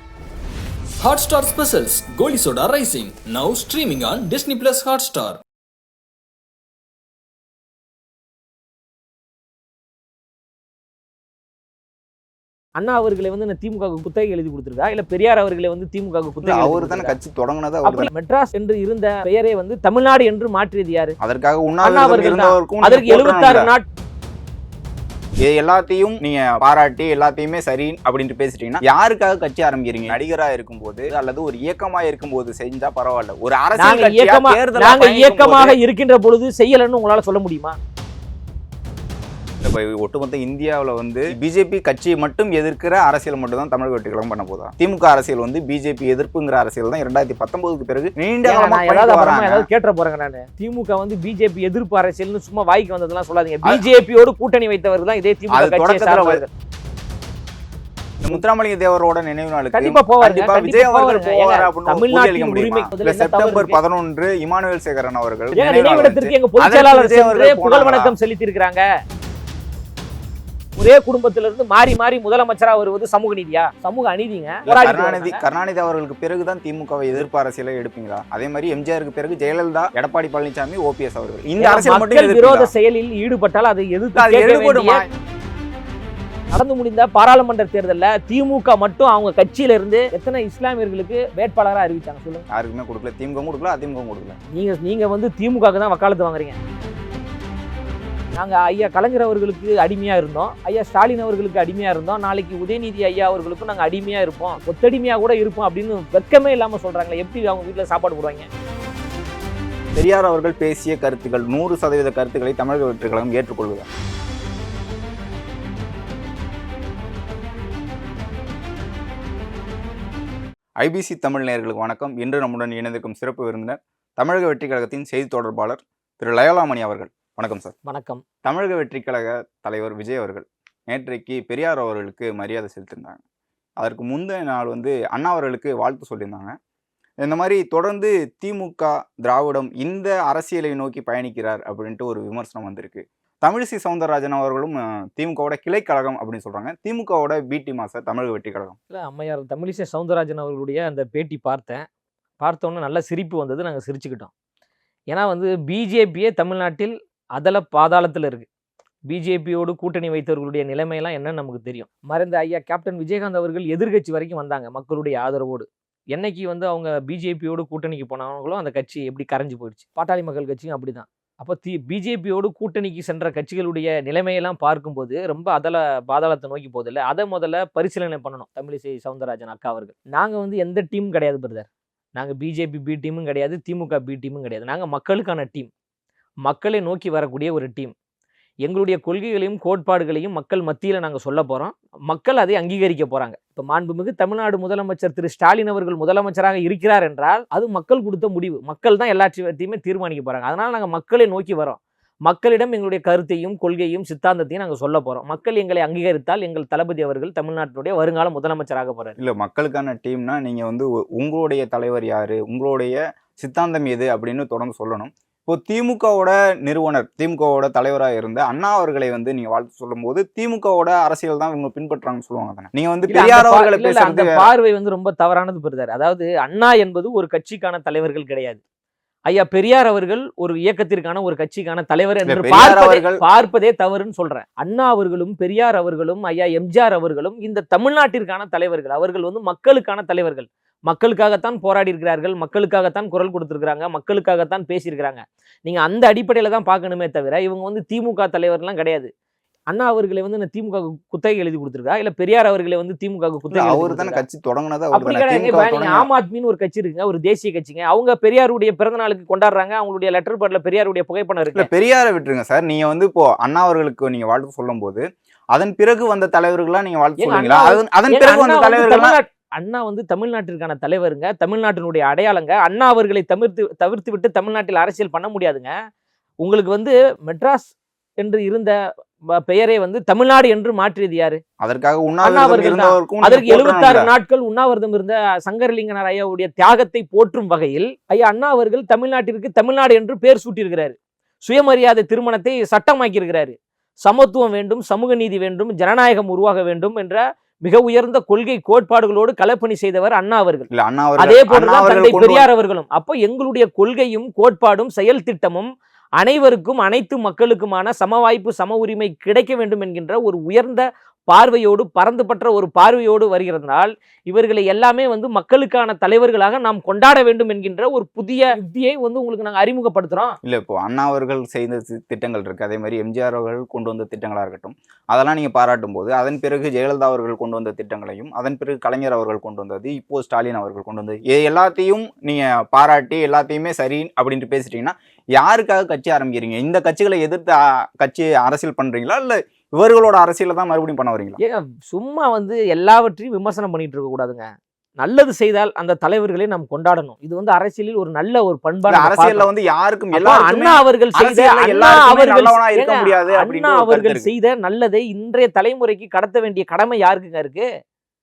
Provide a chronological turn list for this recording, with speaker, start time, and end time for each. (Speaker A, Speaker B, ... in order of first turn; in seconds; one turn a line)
Speaker A: 1.0-5.4
Speaker B: 12.8-17.1
Speaker C: 16.4-18.1
Speaker B: 17.9-21.2
Speaker C: 21.2-23.7
Speaker B: 21.8-23.9
Speaker C: 25.4-35.8
Speaker B: 33.8-37.8
Speaker C: 39.6-49.7
Speaker B: 48.5-56.5
Speaker C: 55.5-56.4
Speaker C: 58.2-68.1
Speaker B: 59.7-63.8
Speaker B: 65.5-68.9
Speaker B: 70.8-75.4
Speaker C: 74.7-82.7
Speaker B: 81.6-85.0
Speaker C: 84.2-85.1
Speaker B: 86.5-92.5
Speaker C: 92.5-94.4
Speaker B: 94.5-96.6
Speaker B: 98.3-108.5
Speaker C: 110.0-113.9
Speaker C: 120.8-127.7
Speaker B: 127.9-128.2
Speaker C: 128.4-133.2
Speaker C: 133.8-136.6
Speaker C: 137.2-148.8
Speaker B: 148.9-151.9
Speaker B: 152.4-154.3
Speaker B: 155.1-158.5
Speaker B: 159.1-185.7
Speaker B: 186.4-187.9
Speaker B: 188.6-209.2
Speaker C: 209.2-224.5
Speaker B: 223.1-228.6
Speaker B: 229.3-249.1
Speaker C: 232.3-233.2
Speaker B: 249.7-254.2
Speaker C: 253.5-256.1
Speaker B: 254.9-261.7
Speaker C: 261.6-269.2
Speaker B: 267.2-275.7
Speaker B: 276.4-278.8
Speaker B: 279.4-281.4
Speaker C: 281.6-284.1
Speaker B: 282.2-320.4
Speaker C: 300.7-302.5
Speaker C: 320.4-341.4
Speaker B: 341.4-344.4
Speaker B: 345.0-349.5
Speaker C: 348.9-354.3
Speaker B: 350.1-357.6